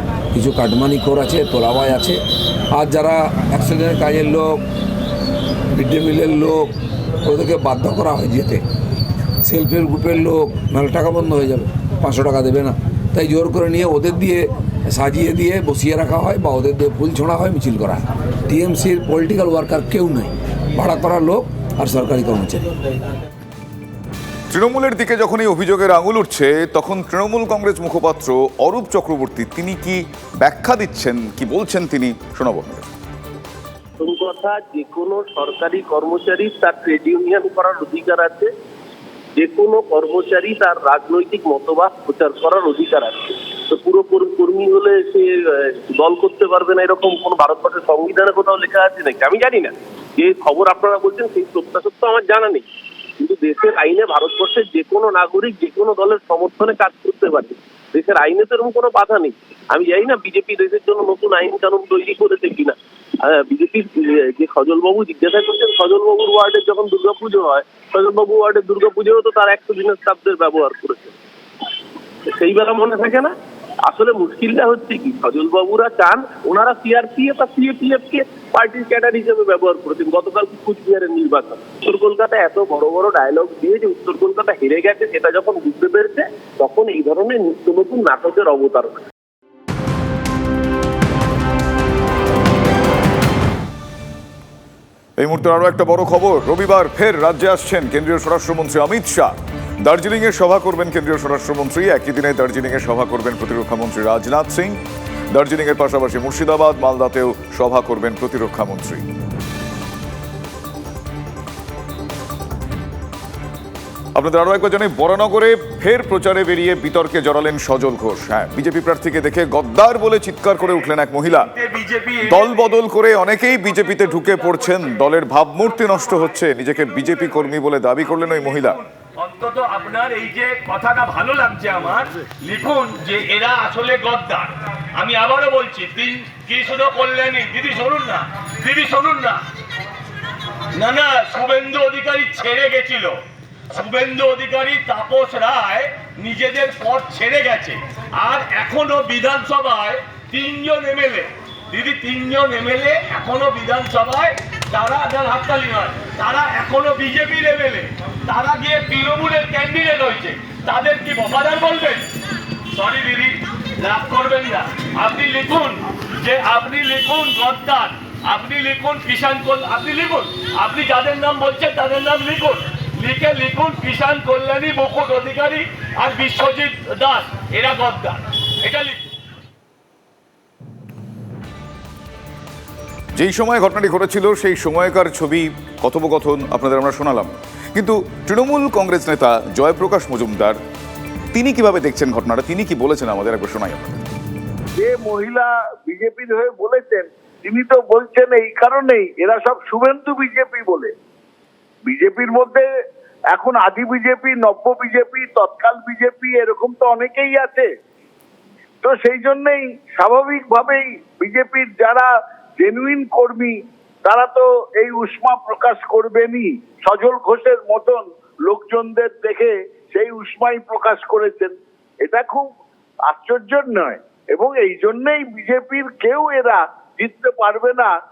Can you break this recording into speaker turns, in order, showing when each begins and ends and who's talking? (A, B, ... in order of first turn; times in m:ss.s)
0:00.3-0:02.2 A
0:02.7-0:04.6 A
0:05.7-0:06.7 A
0:07.2-0:08.6 A
0:09.4-0:22.7 A
0:24.5-0:32.9 B
0:34.0-0:38.5 C
0:39.4-0:52.6 C
0:53.2-1:11.2 C
1:12.3-1:13.3 C
1:13.9-1:29.0 C
1:35.2-1:44.8 B
1:45.3-1:49.0 B
1:54.2-2:01.5 B
2:01.3-2:02.8 D
2:02.2-2:08.8 B
2:03.7-2:05.0 D
2:05.9-2:06.2 D
2:08.1-2:19.4 D
2:20.8-2:42.1 D
2:42.8-2:59.0 D
3:03.2-3:10.6 B
3:11.3-3:14.0 B
3:14.8-3:20.9 E
3:21.9-3:22.6 E
3:23.3-3:27.7 E
3:28.8-3:32.1 E
3:32.6-3:33.5 E
3:34.1-3:38.0 E
3:38.5-3:41.5 E
3:42.0-3:42.4 E
3:43.1-3:47.9 E